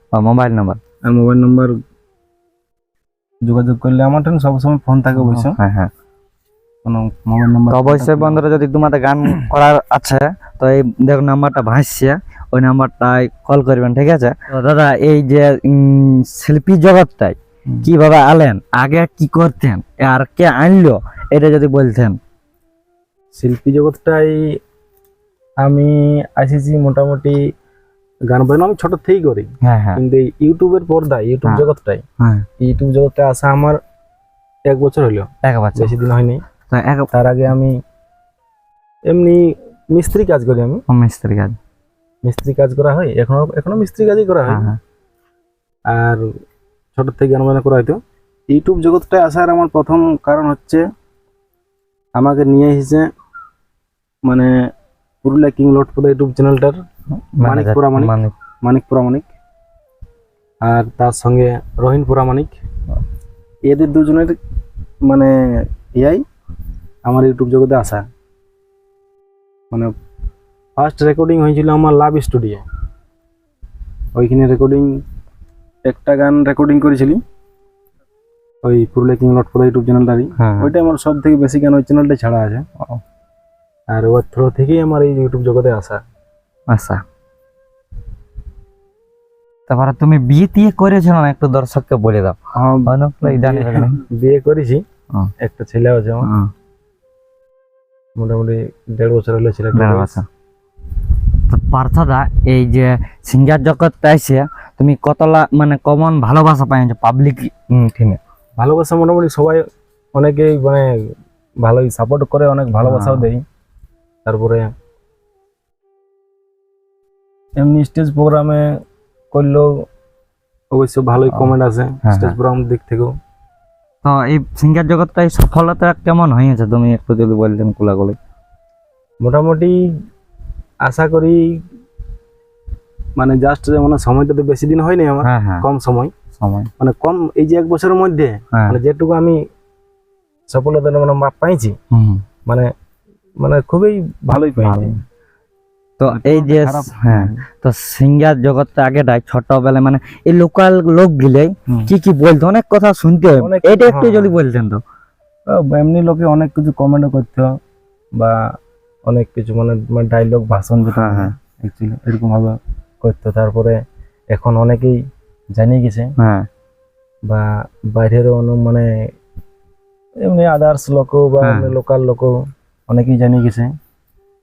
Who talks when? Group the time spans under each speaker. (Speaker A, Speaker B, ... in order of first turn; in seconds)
Speaker A: 0.1-0.8, 5.2-5.9, 7.7-22.2, 29.6-30.0, 32.2-32.5, 35.4-35.9, 36.7-37.1, 40.9-41.5, 44.5-44.8, 57.4-58.3, 80.4-80.7, 86.7-87.0, 89.7-92.3, 92.9-94.0, 96.2-96.5, 99.7-100.2, 101.5-108.2, 112.8-113.2, 122.0-122.3, 124.0-128.2, 135.2-135.6, 136.4-136.7, 141.9-142.2, 144.6-145.0, 146.0-154.8, 160.9-161.3, 166.2-166.5, 171.4-171.7
Speaker B: 1.0-1.7, 3.4-5.5, 6.8-8.4, 23.3-24.4, 25.6-27.4, 28.3-32.0, 32.6-33.8, 34.6-36.4, 37.1-37.8, 39.1-40.8, 42.2-44.7, 45.9-46.2, 47.0-48.0, 48.5-50.8, 52.1-53.1, 54.3-54.5, 55.2-56.8, 57.4-59.3, 60.6-62.6, 63.7-64.3, 65.1-66.2, 67.0-68.0, 70.8-72.6, 74.1-75.0, 75.8-77.2, 78.6-82.6, 83.9-86.0, 92.5-94.8, 95.4-96.3, 98.2-100.1, 108.6-109.6, 110.1-110.9, 111.6-113.4, 114.2-114.7, 117.6-118.7, 119.3-119.7, 120.7-123.1, 129.2-129.8, 130.8-131.4, 133.2-136.1, 136.8-139.4, 140.5-141.8, 143.4-145.0, 146.1-147.4, 153.4-154.3, 155.5-157.5, 159.1-163.8, 164.3-165.0, 165.6-166.1, 167.3-168.9, 170.2-172.3, 172.9-173.7